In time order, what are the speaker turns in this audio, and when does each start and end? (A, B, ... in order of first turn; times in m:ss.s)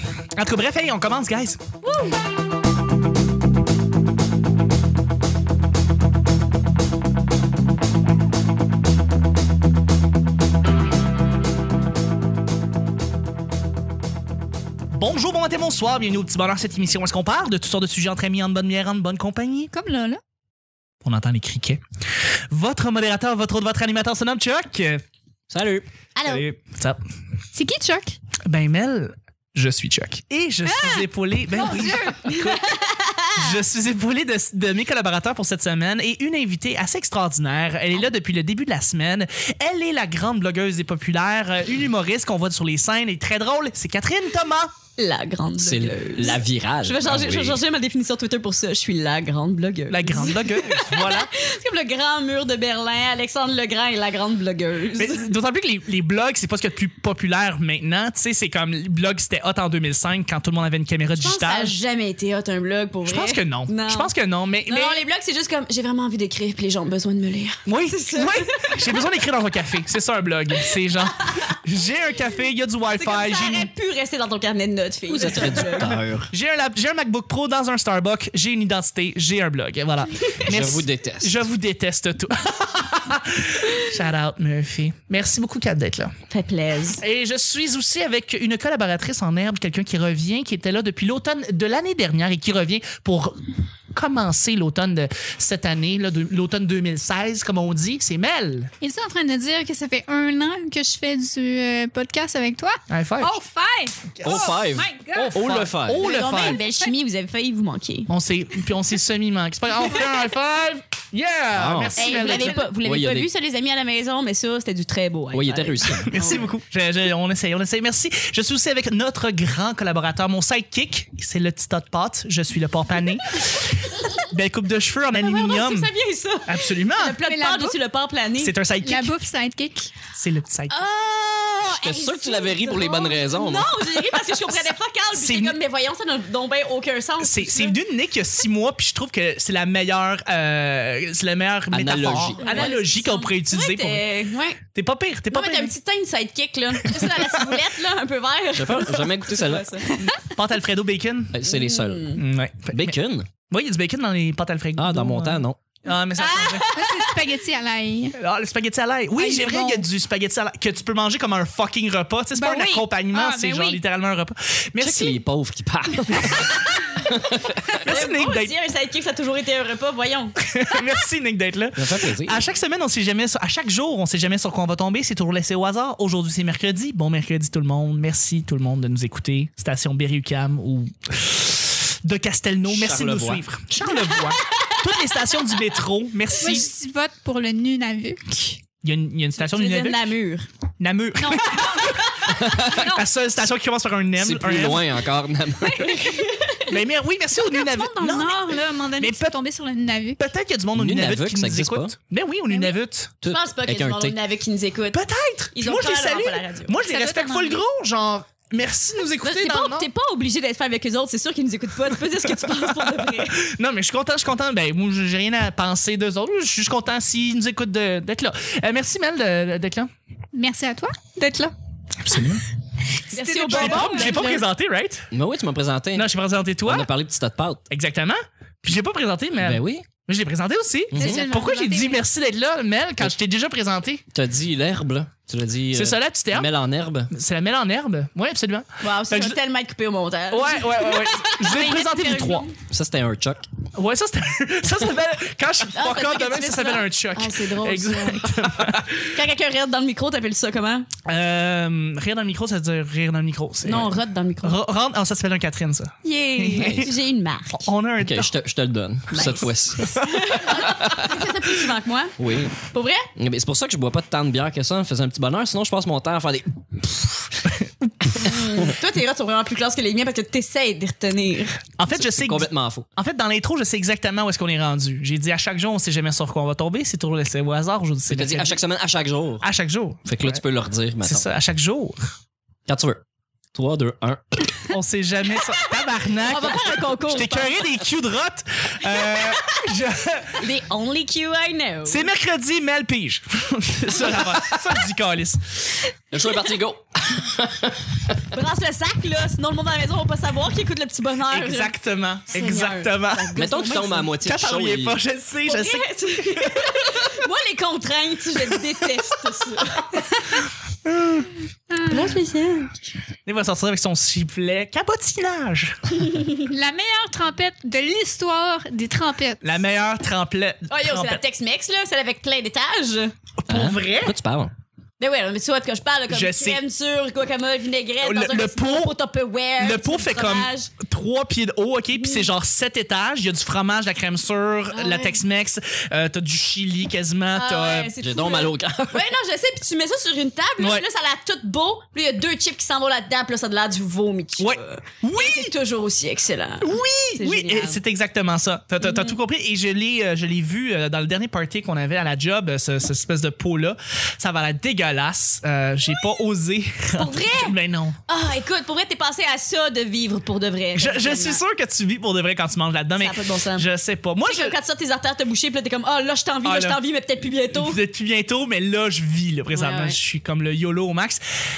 0:00.3-0:01.6 A
0:01.8-0:02.2 B
0:14.9-0:19.7 A
0:19.7-0:20.2 C
0:21.0-0:21.8 A
0:22.5-0:25.0 A
0:25.5-0:25.9 D
0:26.1-0:26.4 B
0:26.2-0:27.0 A
0:27.5-0:28.2 C
0:28.4-0:32.6 A
0:30.6-0:32.6 C
0:32.3-0:33.6 B
0:33.4-0:44.7 A
0:45.0-0:55.2 B
0:45.6-0:47.6 D
0:49.9-0:51.3 A
0:54.9-1:01.8 A
1:01.2-1:04.1 B
1:03.0-1:05.0 A
1:04.7-1:08.8 B
1:07.6-1:13.7 A
1:12.9-1:16.0 B
1:15.1-1:16.3 D
1:16.3-1:26.1 A
1:20.4-1:21.4 D
1:26.3-1:27.0 B
1:27.0-1:38.7 A
1:38.8-1:45.6 C
1:42.9-1:43.3 A
1:44.2-1:44.6 A
1:44.2-1:46.1 D
1:45.1-1:46.6 A
1:46.0-1:48.1 B
1:46.4-1:46.9 C
1:48.1-1:52.6 A
1:51.5-1:53.3 D
1:52.0-1:56.5 B
1:55.3-1:56.1 D
1:56.1-2:05.9 A
2:05.1-2:08.5 B
2:06.4-2:07.2 A
2:07.2-2:07.8 C
2:08.4-2:09.1 A
2:08.8-2:10.0 C
2:10.1-2:10.8 A
2:10.7-2:17.8 B
2:11.7-2:13.8 D
2:14.3-2:15.6 A
2:17.2-2:24.0 A
2:21.7-2:22.6 D
2:22.4-2:24.6 B
2:24.7-2:25.7 A
2:25.3-2:30.1 B
2:26.8-2:27.6 A
2:28.5-2:29.7 D
2:29.9-2:30.2 C
2:30.2-2:31.4 A
2:31.3-2:32.2 D
2:31.4-2:32.2 B
2:32.2-2:33.0 A
2:32.7-2:33.3 D
2:33.5-2:36.7 A
2:34.8-2:35.6 D
2:36.2-2:37.2 B
2:36.7-2:38.2 C
2:38.1-2:45.2 A
2:39.2-2:39.8 C
2:42.3-2:43.8 C
2:44.8-2:47.6 D
2:47.8-2:50.4 B
2:47.8-2:48.5 A
2:50.4-3:06.7 A
2:51.8-2:52.4 D
3:02.7-3:03.4 D
3:06.3-3:08.6 C
3:08.8-3:10.0 A
3:09.4-3:10.5 B
3:10.8-3:14.9 A
3:11.3-3:12.0 C
3:11.6-3:12.0 B
3:12.3-3:12.9 D
3:12.7-3:13.0 C
3:14.2-3:16.3 D
3:15.7-3:16.7 B
3:16.7-3:18.4 A
3:17.5-3:20.3 C
3:19.0-3:19.4 A
3:20.2-3:23.1 A
3:20.8-3:21.9 D
3:22.5-3:22.7 C
3:23.2-3:24.2 D
3:23.3-3:25.0 B
3:24.9-3:29.9 A
3:25.5-3:26.8 B
3:26.8-3:27.6 C
3:29.2-3:33.4 B
3:32.4-3:39.9 A
3:40.3-3:41.5 C
3:42.0-3:42.4 A
3:43.1-3:44.4 B
3:43.1-3:44.3 C
3:43.4-3:45.1 A
3:45.1-3:46.1 D
3:45.9-3:46.9 A
3:46.6-3:47.6 D
3:47.7-3:54.0 A
3:49.4-3:49.9 D
3:50.9-3:51.2 D
3:50.9-3:52.0 C
3:54.1-3:57.1 D
3:55.7-3:56.5 A
3:57.1-3:59.4 A
3:58.8-4:02.5 B
4:00.3-4:02.5 A
4:02.7-4:03.4 D
4:03.7-4:09.2 A
4:05.7-4:08.3 B
4:09.1-4:10.9 B
4:11.0-4:16.9 A
4:13.6-4:14.6 B
4:16.0-4:17.7 B
4:16.6-4:16.9 D
4:17.5-4:18.3 A
4:18.0-4:21.2 D
4:19.1-4:23.1 B
4:20.0-4:20.3 A
4:22.2-4:22.6 D
4:23.2-4:27.5 D
4:27.8-4:28.2 A
4:28.2-4:31.6 B
4:31.8-4:38.6 A
4:31.9-4:32.8 D
4:38.1-4:39.5 D
4:39.4-4:40.4 A
4:40.0-4:41.3 D
4:41.0-4:42.0 A
4:42.7-4:43.0 D
4:43.5-4:44.6 D
4:44.7-4:50.4 A
4:46.1-4:47.6 B
4:50.4-4:52.1 B
4:51.9-4:55.8 A
4:54.0-4:54.2 B
4:56.1-4:58.2 D
4:58.3-5:01.7 B
5:01.3-5:03.3 A
5:02.3-5:04.1 B
5:03.3-5:05.0 D
5:04.2-5:07.0 A
5:05.4-5:10.1 B
5:08.4-5:08.8 A
5:10.8-5:11.3 A
5:11.7-5:12.0 C
5:11.9-5:12.7 B
5:13.2-5:16.0 A
5:16.4-5:19.5 C
5:19.4-5:21.2 A
5:20.7-5:23.1 B
5:23.4-5:24.1 A
5:23.5-5:24.5 D
5:25.0-5:30.7 B
5:26.1-5:26.6 A
5:28.0-5:29.0 A
5:29.6-5:37.9 A
5:31.9-5:32.2 B
5:34.7-5:35.2 B
5:37.3-5:47.8 B
5:38.0-5:39.0 D
5:40.6-5:40.8 A
5:44.4-5:45.5 A
5:46.6-5:58.0 A
5:48.8-5:49.1 B
5:56.9-5:57.6 B
5:58.1-6:01.4 B
6:00.7-6:04.6 A
6:03.0-6:03.7 B
6:04.2-6:07.8 B
6:06.4-6:06.8 A
6:07.5-6:11.2 A
6:09.5-6:10.0 B